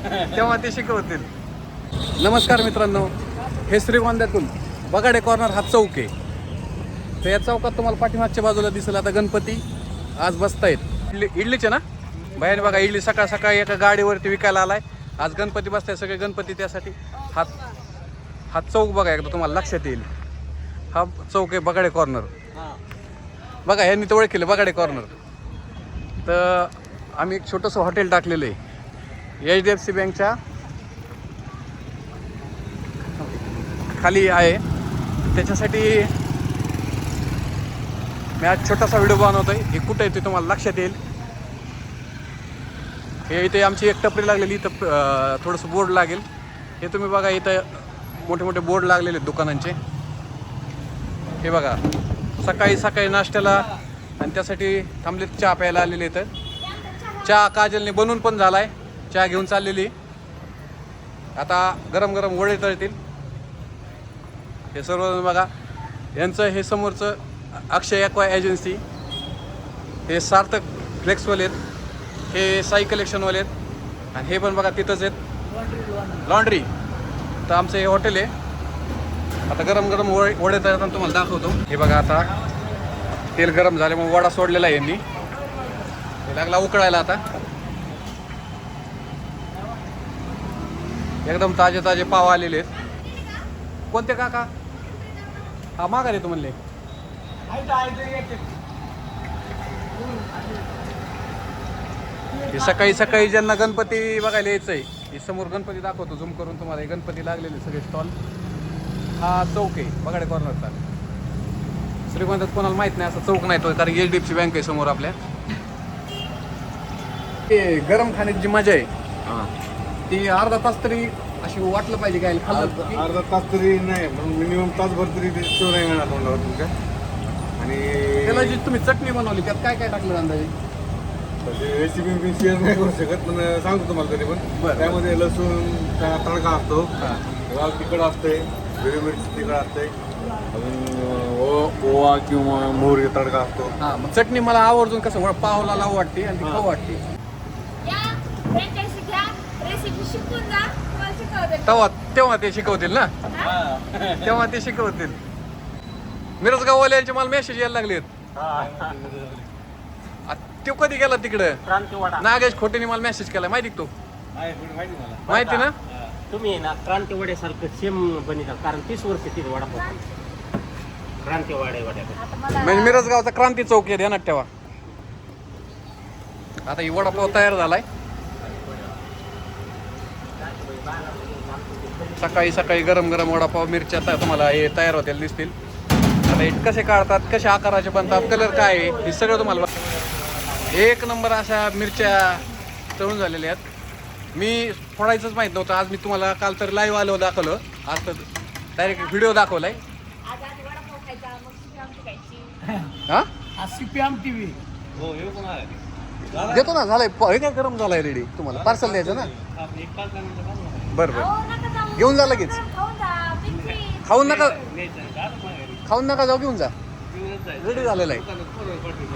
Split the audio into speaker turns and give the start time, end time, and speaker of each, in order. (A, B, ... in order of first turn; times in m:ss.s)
0:00.2-0:01.3 A
0:02.2-0:03.1 A
0:03.7-0:06.1 A
0:07.2-0:09.6 A
0:10.2-0:17.5 A
0:18.5-0:20.1 A
0:20.9-0:22.3 A
0:23.7-0:25.1 A
0:26.2-0:28.6 A
0:29.4-0:30.4 A
0:33.2-0:34.6 A
0:35.3-0:36.1 A
0:38.4-0:41.0 A
0:43.3-0:46.2 A
0:46.8-0:49.8 A
0:51.4-0:51.8 A
0:52.4-0:53.7 A
0:54.2-0:56.3 A
0:56.6-0:57.4 B
0:57.2-0:59.9 A
1:01.4-1:03.0 A
1:04.7-1:05.5 A
1:06.2-1:08.8 A
1:10.1-1:11.6 A
1:12.3-1:13.5 A
1:14.1-1:15.2 A
1:16.0-1:16.7 A
1:17.5-1:18.3 A
1:19.5-1:22.3 A
1:23.4-1:25.0 A
1:26.2-1:27.2 A
1:31.2-1:32.7 A
1:33.0-1:33.3 B
1:33.9-1:34.5 A
1:35.8-1:36.6 A
1:42.5-1:48.1 A
1:49.2-1:50.8 A
1:52.1-1:55.2 A
1:57.5-1:58.9 A
2:00.1-2:03.0 A
2:02.5-2:06.7 C
2:07.6-2:08.6 C
2:08.2-2:10.5 A
2:11.4-2:16.9 C
2:14.6-2:15.0 A
2:17.5-2:19.9 C
2:20.5-2:23.8 C
2:23.8-2:27.0 A
2:27.8-2:31.9 B
2:31.7-2:33.1 A
2:33.3-2:33.6 B
2:34.2-2:35.2 A
2:36.4-2:38.1 A
2:38.4-2:39.0 D
2:38.6-2:39.5 C
2:40.3-2:41.6 A
2:41.7-2:42.3 D
2:42.2-2:43.9 A
2:44.4-2:45.3 C
2:45.3-2:45.7 D
2:45.3-2:45.7 A
2:46.3-2:49.9 D
2:49.7-2:50.0 B
2:51.2-2:52.2 D
2:52.2-2:53.1 B
2:52.6-2:54.5 A
2:56.7-2:57.8 A
2:57.0-2:57.6 D
2:58.4-2:58.9 D
3:00.4-3:02.6 D
3:02.2-3:05.6 A
3:06.3-3:09.7 A
3:08.0-3:10.7 D
3:10.7-3:12.4 A
3:13.0-3:13.6 A
3:14.4-3:19.8 A
3:18.8-3:22.7 B
3:23.8-3:24.5 E
3:25.1-3:25.5 E
3:26.4-3:29.3 A
3:29.6-3:30.5 E
3:30.3-3:30.8 D
3:30.9-3:31.3 A
3:31.1-3:34.2 B
3:32.0-3:32.6 A
3:34.0-3:34.6 A
3:34.8-3:35.7 E
3:35.8-3:36.7 A
3:37.2-3:37.5 E
3:37.6-3:38.3 A